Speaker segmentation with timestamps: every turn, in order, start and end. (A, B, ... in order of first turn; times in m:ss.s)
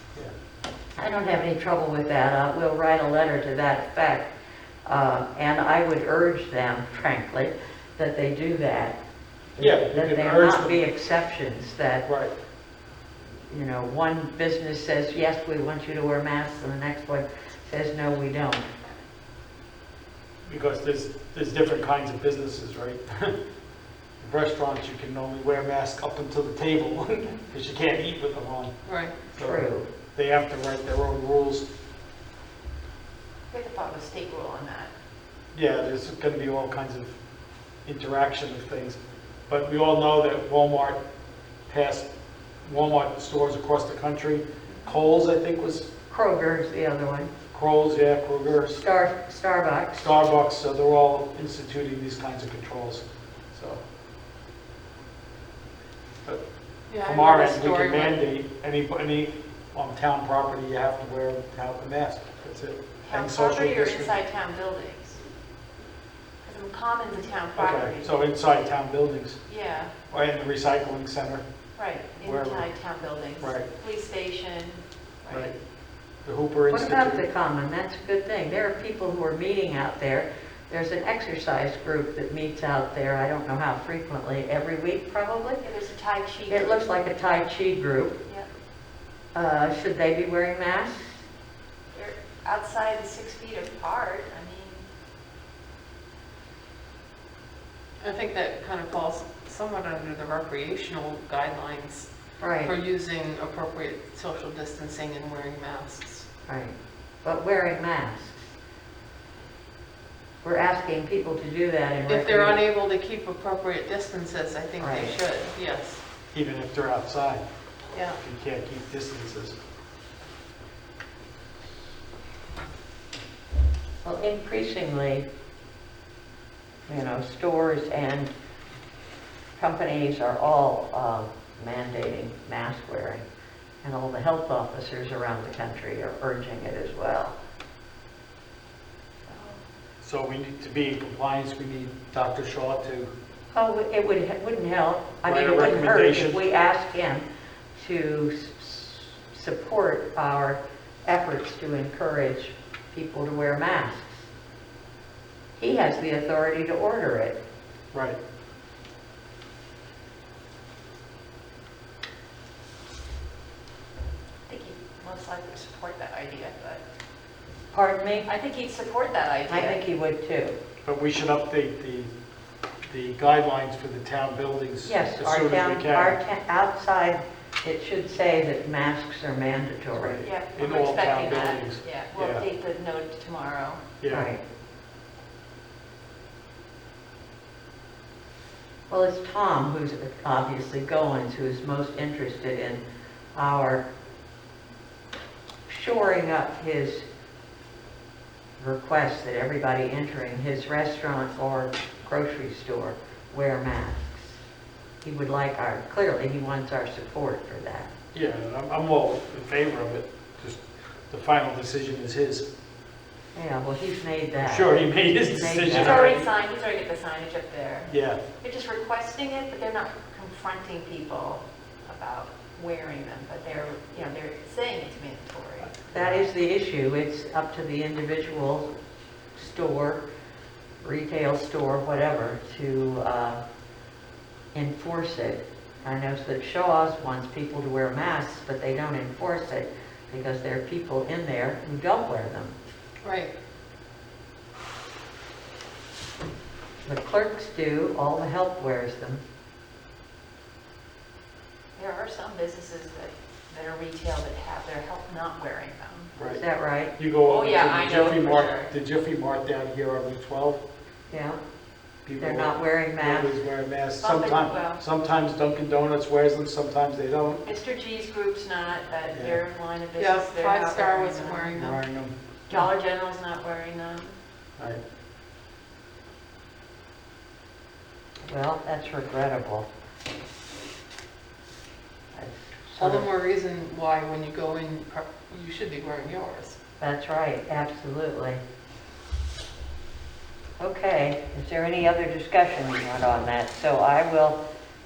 0:01.0-0:04.3 A
0:04.8-0:09.0 A
0:09.5-0:12.0 A
0:09.6-0:10.8 B
0:12.1-0:12.3 B
0:13.4-0:18.7 A
0:20.5-0:23.4 B
0:24.2-0:28.8 B
0:28.9-0:29.2 C
0:29.3-0:31.7 B
0:29.4-0:29.9 A
0:33.5-0:34.9 D
0:35.5-0:37.2 B
0:37.9-0:39.0 B
0:39.5-0:41.0 B
0:41.7-0:42.1 B
0:42.6-0:45.9 B
0:46.1-0:47.3 A
0:47.5-0:48.8 B
0:48.8-0:50.1 A
0:49.9-0:53.8 B
0:56.9-0:58.2 C
0:57.0-1:04.2 B
1:03.0-1:05.2 D
1:06.4-1:08.2 D
1:07.6-1:09.4 B
1:09.5-1:09.9 D
1:10.1-1:11.4 B
1:11.8-1:15.5 D
1:12.2-1:12.6 B
1:13.4-1:13.7 B
1:16.2-1:17.2 B
1:16.7-1:25.6 A
1:25.6-1:26.8 D
1:26.5-1:28.2 A
1:29.3-1:31.2 A
1:31.9-1:34.8 D
1:38.0-1:42.1 C
1:42.4-1:42.7 A
1:42.6-1:46.3 C
1:46.5-1:48.5 A
1:50.4-1:52.7 A
1:52.1-1:56.0 C
1:54.8-1:55.2 A
1:56.3-1:57.4 B
1:57.9-1:58.2 C
1:58.2-1:59.6 B
2:04.0-2:05.3 A
2:06.9-2:08.3 A
2:09.6-2:13.2 A
2:13.8-2:17.4 A
2:19.3-2:19.6 D
2:20.0-2:23.1 B
2:23.5-2:34.2 A
2:25.2-2:26.4 B
2:35.6-2:37.4 A
2:37.9-2:38.2 B
2:44.5-2:46.8 D
2:47.7-2:48.3 A
2:48.2-2:49.8 D
2:49.5-2:50.6 A
2:50.8-2:52.1 B
2:52.9-2:56.2 B
2:54.8-3:00.2 A
2:59.9-3:02.5 B
3:00.2-3:03.8 D
3:04.0-3:04.3 B
3:04.1-3:04.4 A
3:08.9-3:12.8 A
3:13.4-3:13.8 A
3:15.7-3:17.1 A
3:18.6-3:24.4 A
3:25.0-3:27.9 A
3:28.1-3:32.4 B
3:33.4-3:36.0 A
3:34.4-3:36.3 B
3:35.7-3:45.7 D
3:37.9-3:38.2 B
3:45.6-3:46.2 B
3:45.9-3:48.7 A
3:49.4-3:50.1 A
3:50.8-3:53.4 A
3:54.5-4:02.6 A
4:03.0-4:03.3 C
4:06.8-4:09.2 A
4:11.8-4:16.1 D
4:16.2-4:16.4 B
4:16.3-4:16.9 A
4:17.0-4:20.6 B
4:17.2-4:18.7 D
4:21.1-4:21.4 A
4:22.1-4:27.4 B
4:22.2-4:23.3 A
4:24.0-4:24.8 D
4:27.4-4:31.6 D
4:29.1-4:29.4 B
4:30.0-4:31.8 C
4:31.6-4:32.1 B
4:32.5-4:34.2 D
4:38.3-4:39.7 A
4:42.1-4:43.1 A
4:42.8-4:46.6 C
4:46.8-4:48.4 A
4:50.6-4:54.4 A